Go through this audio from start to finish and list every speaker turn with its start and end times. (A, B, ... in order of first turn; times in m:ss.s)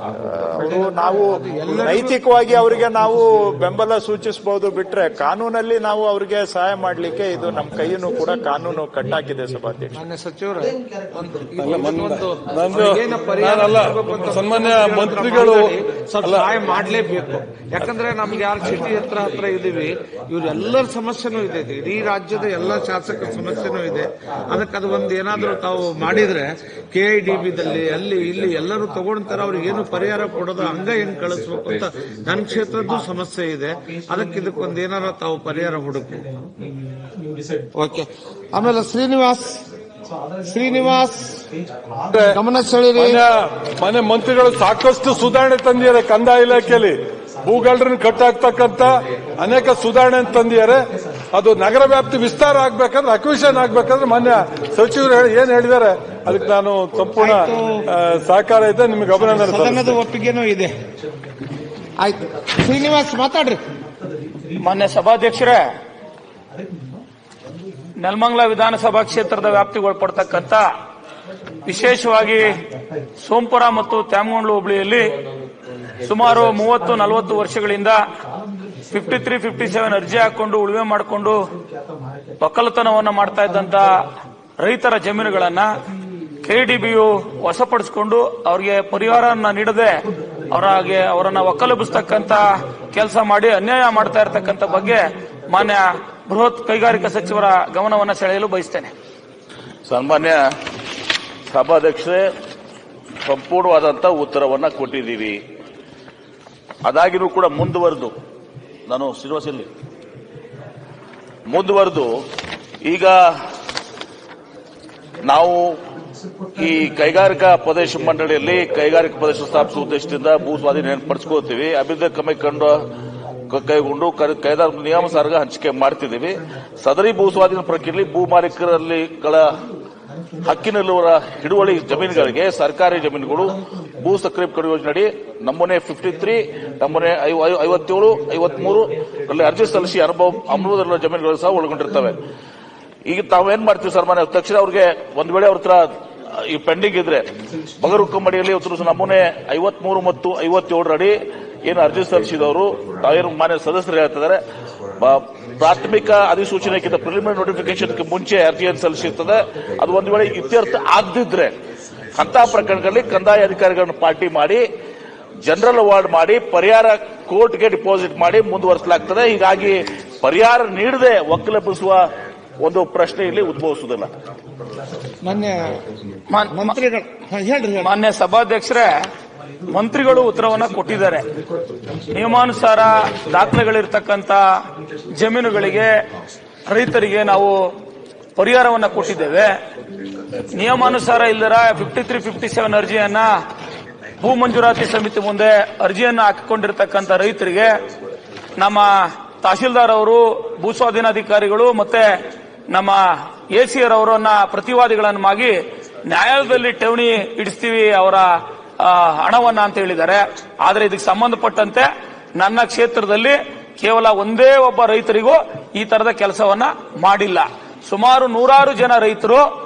0:00.3-0:10.0 A
0:00.7-0:02.2 B
0:10.0-0:36.3 B
0:11.6-0:16.5 C
0:37.8-0:39.6 B
0:40.4-0:41.4 B
0:42.1-0:42.4 C
0:42.2-0:43.2 B
0:42.9-0:50.8 C
0:51.3-1:00.0 C
0:57.2-0:57.8 B
0:59.2-1:00.8 B
1:02.0-1:03.6 B
1:04.6-1:05.6 D
1:08.0-1:10.7 D
1:11.7-1:12.4 D
1:13.2-1:15.1 D
1:16.0-1:18.0 D
1:18.9-1:21.4 D
1:22.4-1:23.9 D
1:24.6-1:25.7 D
1:26.5-1:30.0 D
1:30.5-1:38.9 D
1:39.9-1:40.4 E
1:41.5-1:42.3 E
1:43.2-1:45.4 E
1:46.8-1:48.1 E
1:48.9-1:49.7 E
1:51.5-1:52.1 E
1:52.8-1:53.4 E
1:55.2-1:55.8 E
1:56.6-2:02.8 E
2:03.5-2:09.6 E
2:10.4-2:22.2 E
2:23.0-2:27.3 E
2:27.8-2:34.4 E
2:35.0-2:41.5 E
2:42.2-2:44.6 E
2:45.4-2:54.1 E
2:55.2-2:55.8 B
2:56.3-2:56.8 D
2:56.5-2:57.9 B
2:57.8-2:58.9 D
2:59.7-3:01.2 D
3:02.1-3:04.4 D
3:05.2-3:05.9 D
3:06.7-3:07.5 D
3:08.4-3:09.5 D
3:10.6-3:13.3 D
3:14.2-3:17.7 D
3:18.6-3:18.9 D
3:19.4-3:22.1 D
3:22.7-3:23.0 D
3:23.5-3:25.6 D
3:26.1-3:28.3 D
3:28.8-3:39.5 D